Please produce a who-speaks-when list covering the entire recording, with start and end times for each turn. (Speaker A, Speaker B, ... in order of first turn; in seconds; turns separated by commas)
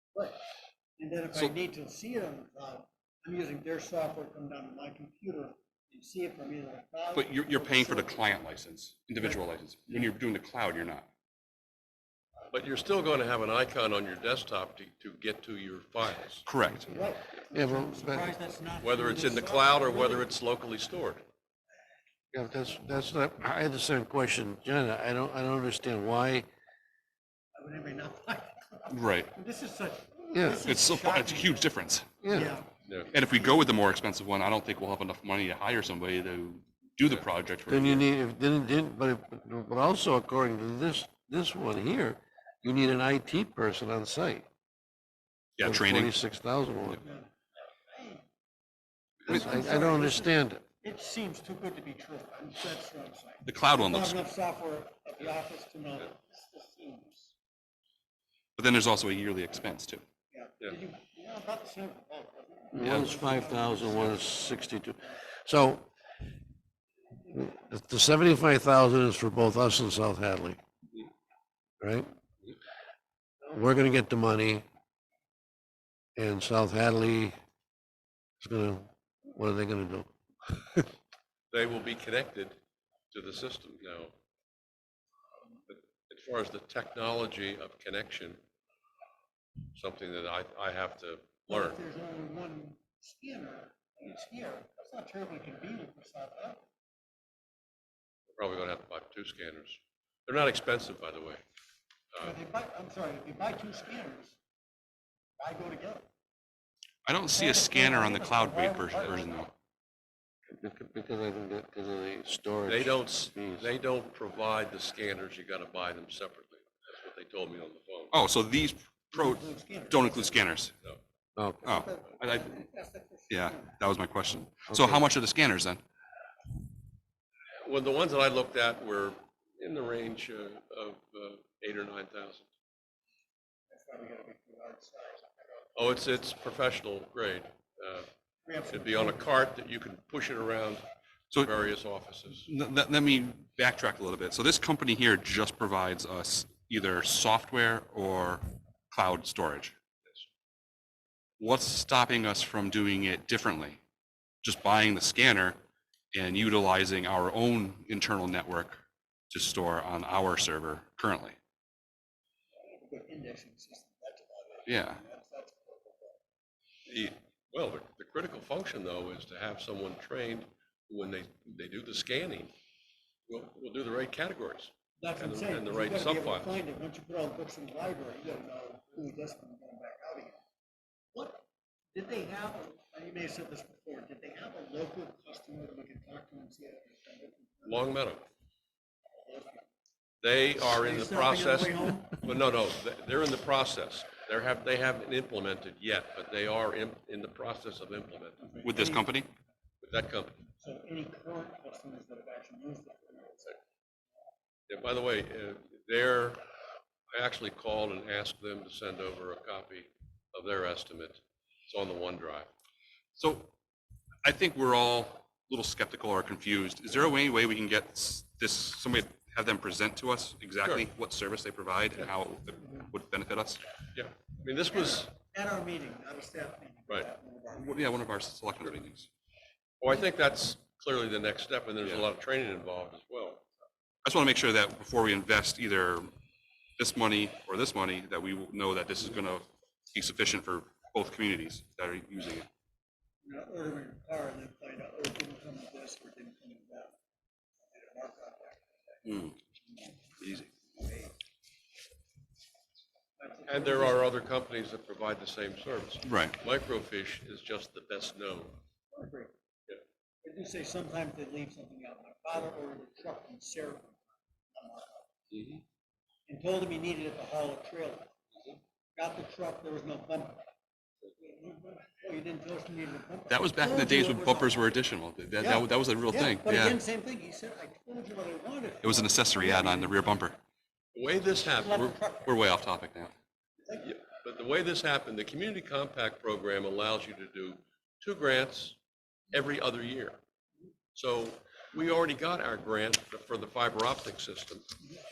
Speaker A: 0.1-0.4, Speaker A: 1.0-8.3, Speaker B: 7.1-11.1, Speaker A: 9.2-10.1, Speaker C: 12.5-16.5, Speaker B: 16.5-16.9, Speaker A: 16.8-20.3, Speaker D: 17.5-18.3, Speaker C: 18.8-21.2, Speaker D: 22.3-26.5, Speaker A: 27.6-31.7, Speaker B: 28.9-29.3, Speaker D: 30.3-30.7, Speaker B: 30.6-32.1, Speaker D: 32.2-32.5, Speaker A: 32.3-33.6, Speaker B: 33.1-38.0, Speaker D: 37.7-44.5, Speaker B: 45.6-46.1, Speaker D: 45.6-47.0, Speaker A: 47.0-47.3, Speaker A: 47.9-48.2, Speaker A: 49.2-57.3, Speaker D: 49.3-50.6, Speaker B: 53.5-54.2, Speaker B: 58.6-60.0, Speaker A: 60.3-65.1, Speaker D: 62.7-65.9, Speaker B: 62.8-63.1, Speaker D: 67.3-70.6, Speaker D: 71.8-72.1, Speaker D: 73.4-74.7, Speaker D: 76.2-77.3, Speaker D: 78.4-80.8, Speaker C: 81.5-82.6, Speaker C: 83.1-84.1, Speaker C: 85.7-88.4, Speaker C: 89.7-91.8, Speaker A: 91.5-96.7, Speaker C: 98.4-101.4, Speaker A: 102.2-104.4, Speaker A: 105.4-106.1, Speaker B: 107.0-109.5, Speaker A: 107.3-109.4, Speaker D: 110.5-113.7, Speaker C: 112.7-118.1, Speaker B: 118.1-120.7, Speaker A: 119.1-120.4, Speaker D: 121.4-121.8, Speaker B: 121.6-122.7, Speaker A: 121.6-123.7, Speaker B: 123.3-125.8, Speaker D: 124.7-125.0, Speaker C: 127.6-132.5, Speaker A: 133.7-136.0, Speaker C: 135.8-138.1, Speaker A: 138.4-139.4, Speaker C: 138.7-142.5, Speaker B: 142.5-149.8, Speaker B: 151.4-153.8, Speaker B: 154.4-155.6, Speaker B: 156.1-161.4, Speaker A: 162.6-166.2, Speaker B: 164.7-165.0, Speaker C: 166.9-172.5, Speaker C: 173.3-176.6, Speaker A: 175.0-180.4, Speaker A: 181.1-188.0, Speaker C: 187.7-188.3, Speaker A: 189.2-189.7, Speaker C: 190.2-198.5, Speaker A: 190.7-192.2, Speaker A: 198.4-199.1, Speaker B: 198.6-199.3, Speaker C: 199.8-200.4, Speaker A: 200.6-203.6, Speaker C: 204.7-206.4, Speaker C: 207.1-212.5, Speaker B: 213.2-213.5, Speaker B: 214.2-223.7, Speaker C: 223.9-225.1, Speaker A: 224.7-228.0, Speaker B: 227.5-229.1, Speaker C: 229.8-233.5, Speaker B: 234.0-236.1, Speaker B: 236.8-242.5, Speaker A: 243.2-247.0, Speaker A: 247.7-249.2, Speaker B: 249.1-249.4, Speaker A: 249.7-250.0, Speaker B: 250.2-250.5, Speaker A: 250.8-251.1, Speaker A: 253.2-254.1, Speaker C: 253.5-258.6, Speaker B: 256.1-256.4, Speaker A: 258.9-259.3, Speaker A: 260.2-265.1, Speaker C: 265.3-265.6, Speaker A: 266.3-268.1, Speaker A: 269.0-270.4, Speaker A: 271.2-274.7, Speaker B: 273.3-276.8, Speaker A: 275.4-280.3, Speaker B: 278.8-280.4, Speaker C: 280.9-281.9, Speaker A: 281.5-282.4, Speaker B: 281.8-283.1, Speaker A: 283.6-283.9, Speaker C: 283.8-288.8, Speaker C: 289.3-290.2, Speaker C: 290.9-294.7